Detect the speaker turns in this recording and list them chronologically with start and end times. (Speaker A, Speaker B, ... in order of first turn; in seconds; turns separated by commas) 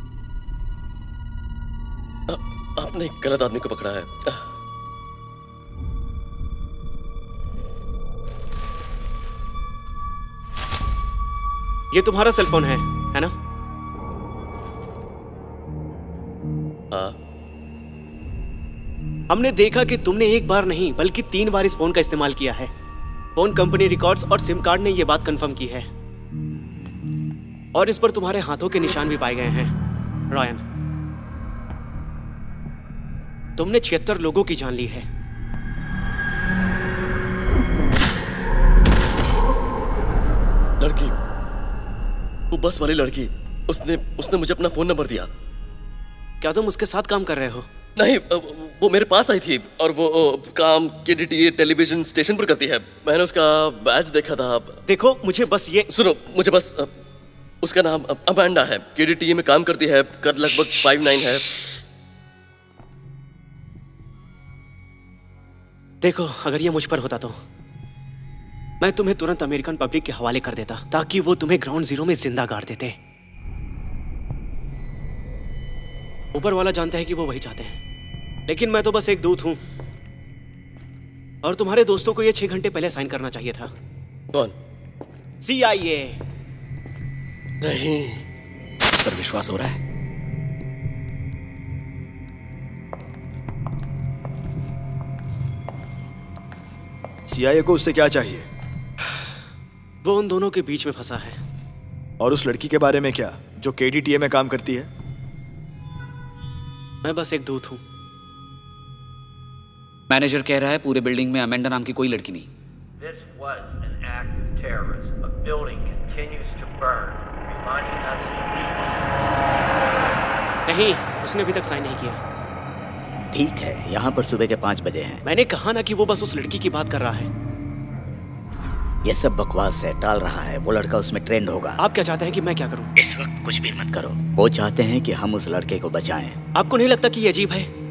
Speaker A: 2.3-4.5, Speaker B: 11.9-13.3, Speaker B: 19.3-22.7, Speaker B: 23.4-25.9, Speaker B: 27.7-29.7, Speaker B: 30.3-30.6, Speaker B: 33.6-35.1, Speaker A: 40.8-41.1, Speaker A: 42.5-45.3, Speaker B: 46.4-47.7, Speaker A: 48.0-54.8, Speaker B: 54.9-55.9, Speaker A: 55.9-56.9, Speaker A: 57.6-61.5, Speaker B: 66.0-67.4, Speaker B: 68.8-73.0, Speaker B: 76.3-77.8, Speaker B: 78.5-79.6, Speaker B: 81.4-83.7, Speaker B: 85.4-86.2, Speaker A: 87.6-88.2, Speaker C: 97.3-98.5, Speaker B: 100.0-101.4, Speaker C: 102.2-104.9, Speaker B: 107.0-107.8, Speaker D: 110.1-112.5, Speaker E: 113.0-119.2, Speaker B: 120.7-122.2, Speaker F: 123.3-125.2, Speaker B: 125.2-127.3, Speaker F: 129.1-131.8, Speaker B: 131.8-132.9, Speaker F: 133.0-136.4, Speaker B: 136.6-137.7